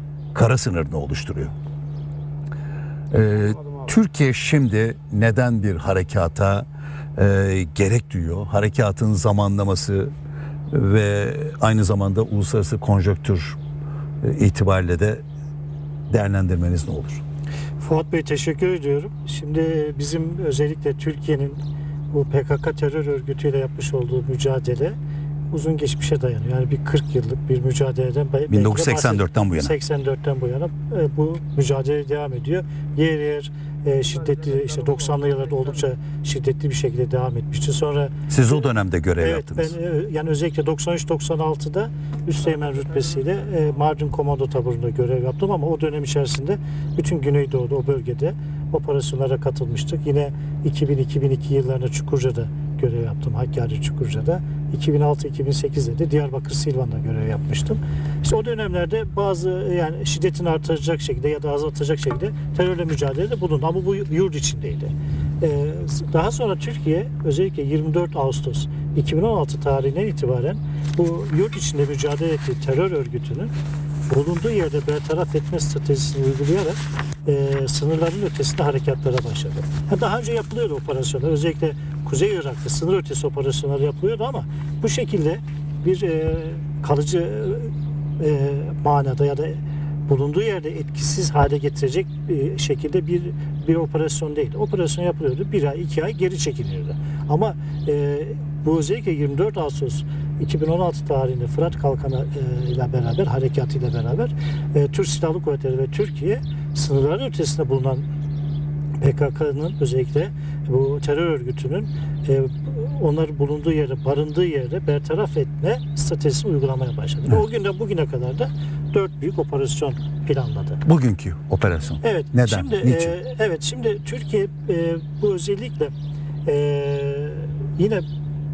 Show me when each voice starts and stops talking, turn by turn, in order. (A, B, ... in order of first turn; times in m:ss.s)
0:00.3-0:01.5 A
0:03.1-0:10.1 A
0:10.7-0:13.6 A
0:14.2-0:15.2 A
0:16.1-0:17.2 A
0:17.8-0:25.0 B
0:25.5-0:38.6 B
0:28.5-0:29.7 A
0:38.3-0:39.7 A
0:39.2-1:13.5 B
1:14.1-1:48.0 B
1:49.0-2:00.8 B
2:00.8-2:03.2 A
2:02.0-2:05.9 B
2:06.4-2:08.0 B